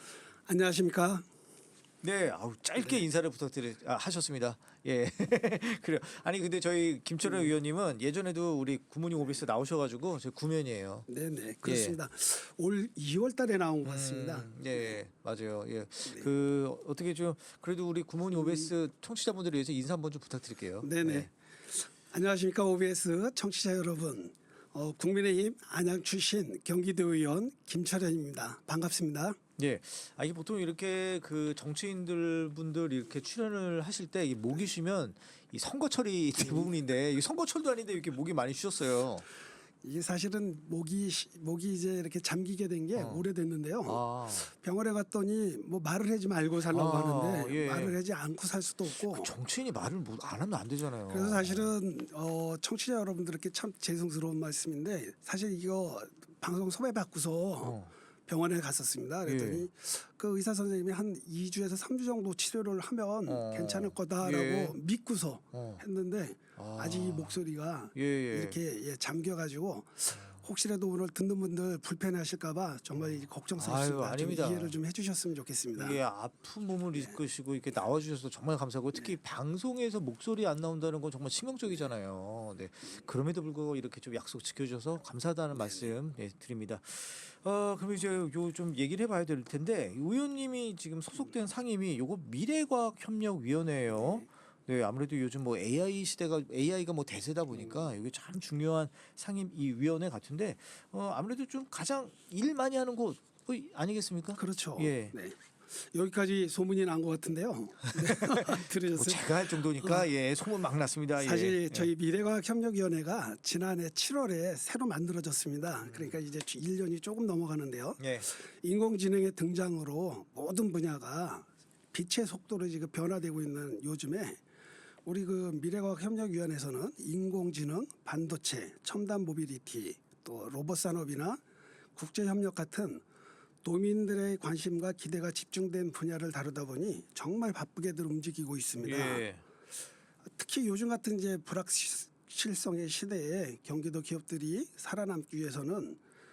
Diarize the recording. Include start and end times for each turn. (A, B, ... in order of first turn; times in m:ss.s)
0:00.4-0:01.3 A
0:02.0-0:11.1 B
0:07.2-0:07.5 A
0:11.1-0:15.0 A
0:11.6-0:12.0 B
0:13.8-0:21.3 B
0:18.3-0:18.7 A
0:20.8-0:29.4 A
0:29.6-0:39.3 B
0:36.4-0:36.7 A
0:39.8-0:49.3 A
0:43.0-0:43.2 B
0:43.8-0:44.5 B
0:46.7-0:48.0 B
0:48.9-0:51.7 B
0:51.1-1:16.0 A
0:57.6-0:57.9 B
0:59.2-0:59.6 B
1:03.3-1:04.8 B
1:05.5-1:05.8 B
1:06.6-1:07.4 B
1:07.9-1:08.6 B
1:10.1-1:10.4 B
1:13.0-1:14.8 B
1:15.8-1:45.2 B
1:25.5-1:25.9 A
1:34.0-1:34.2 A
1:44.4-1:50.1 A
1:47.9-1:51.9 B
1:51.2-2:04.4 A
1:55.8-1:56.1 B
1:58.0-1:58.3 B
2:05.0-2:11.4 A
2:11.9-2:13.0 A
2:13.6-2:19.2 A
2:18.8-2:19.4 B
2:20.3-2:26.0 A